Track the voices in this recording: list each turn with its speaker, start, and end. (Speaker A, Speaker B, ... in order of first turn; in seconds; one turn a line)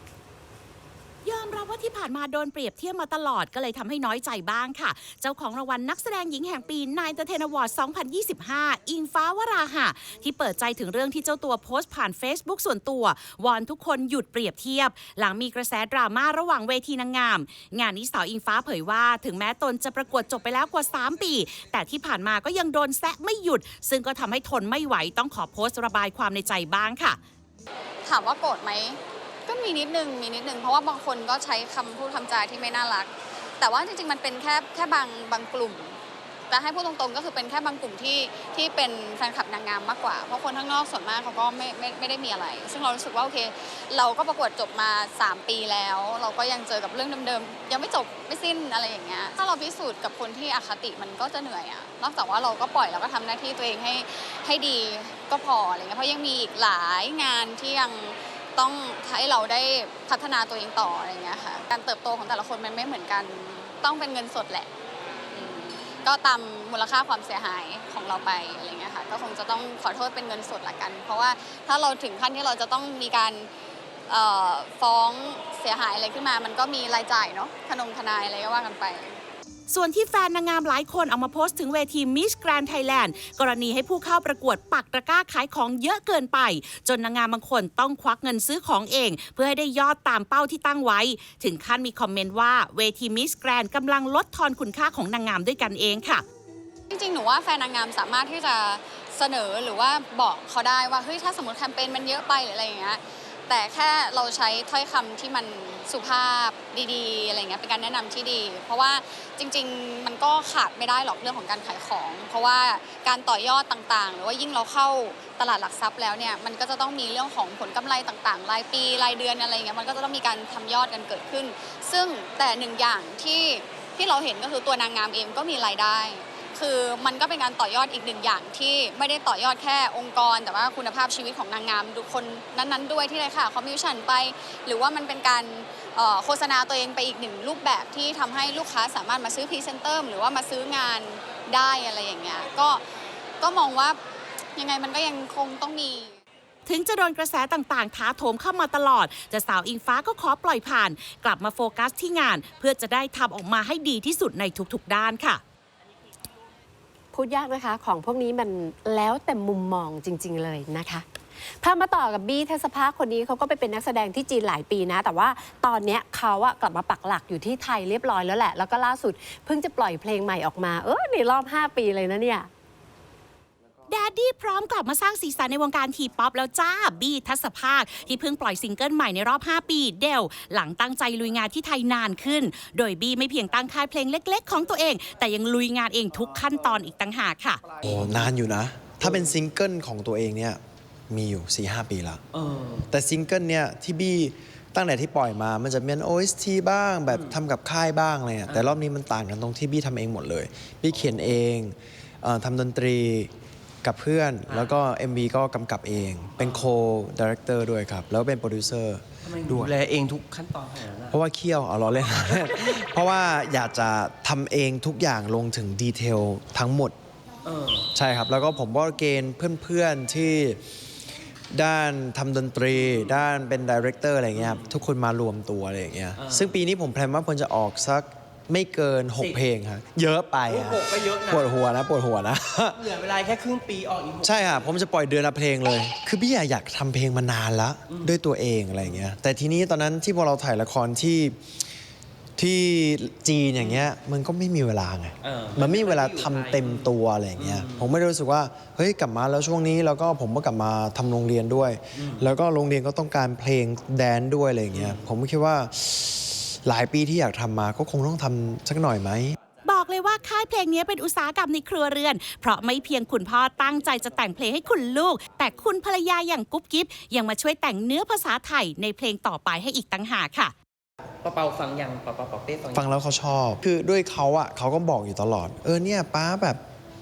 Speaker A: 1.2-27.2
Speaker B: 28.1-36.0
Speaker B: 36.5-64.7
Speaker B: 65.3-73.5
Speaker B: 74.1-79.2
Speaker A: 79.7-96.2
Speaker B: 96.9-142.8
Speaker B: 143.4-144.0
Speaker B: 144.6-146.1
Speaker A: 146.7-155.4
Speaker C: 157.1-172.5
Speaker A: 173.9-187.6
Speaker D: 187.8-192.2
Speaker D: 192.9-203.3
Speaker D: 203.8-209.8
Speaker E: 209.3-211.1
Speaker D: 211.1-216.9
Speaker E: 217.4-217.8
Speaker D: 217.9-220.6
Speaker D: 221.5-232.8
Speaker E: 224.3-224.6
Speaker E: 226.2-226.5
Speaker E: 230.5-231.5
Speaker E: 232.8-234.6
Speaker D: 234.2-241.4
Speaker E: 237.9-238.2
Speaker D: 242.4-259.4
Speaker E: 245.2-246.8
Speaker E: 247.4-247.9
Speaker A: 259.7-270.5
Speaker E: 271.2-272.9
Speaker D: 272.7-276.6